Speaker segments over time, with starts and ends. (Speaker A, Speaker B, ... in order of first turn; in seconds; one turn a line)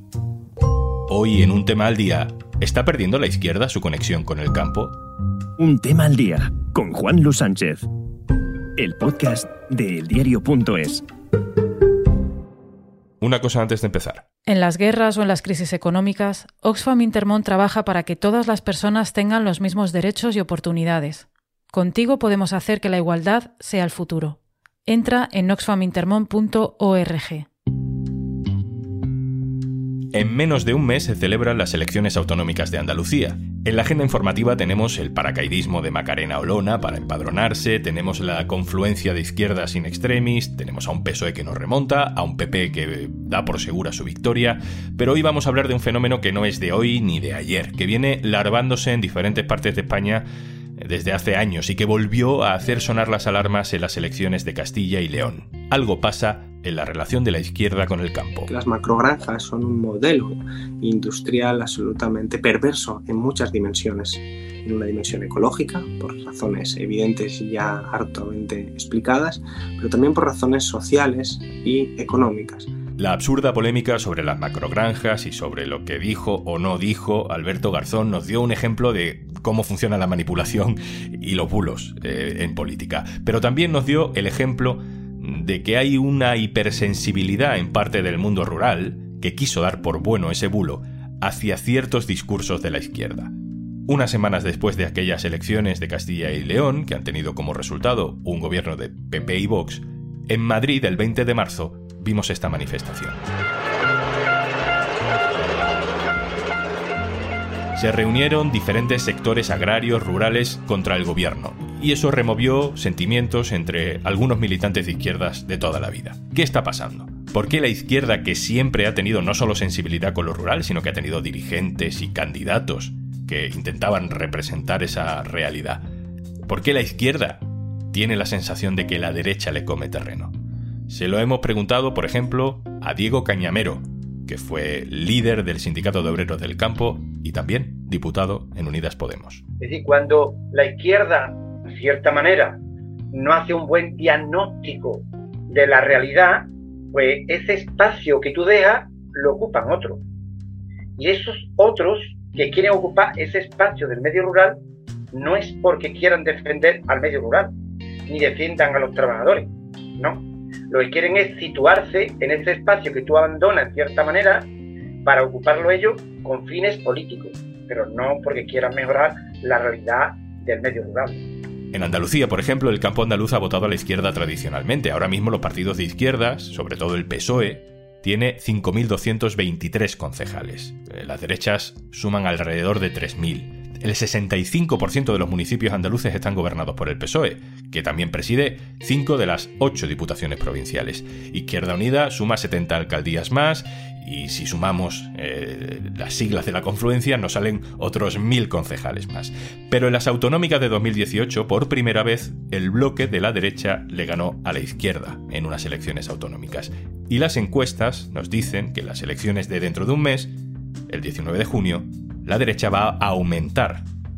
Speaker A: 1.1-5.0
Speaker B: 5.6-7.9
Speaker B: 8.8-11.0
Speaker A: 13.2-14.2
Speaker C: 14.5-27.5
Speaker A: 30.1-50.2
Speaker A: 50.8-58.5
Speaker D: 58.5-72.7
Speaker A: 73.0-93.3
Speaker A: 93.9-103.2
Speaker A: 107.7-125.8
Speaker A: 126.5-130.3
Speaker A: 130.9-139.4
Speaker E: 139.6-142.6
Speaker E: 143.1-150.0
Speaker E: 151.0-154.6
Speaker E: 155.1-157.5
Speaker E: 158.1-164.5
Speaker E: 165.0-171.2
Speaker A: 171.7-210.3
Speaker A: 210.9-213.8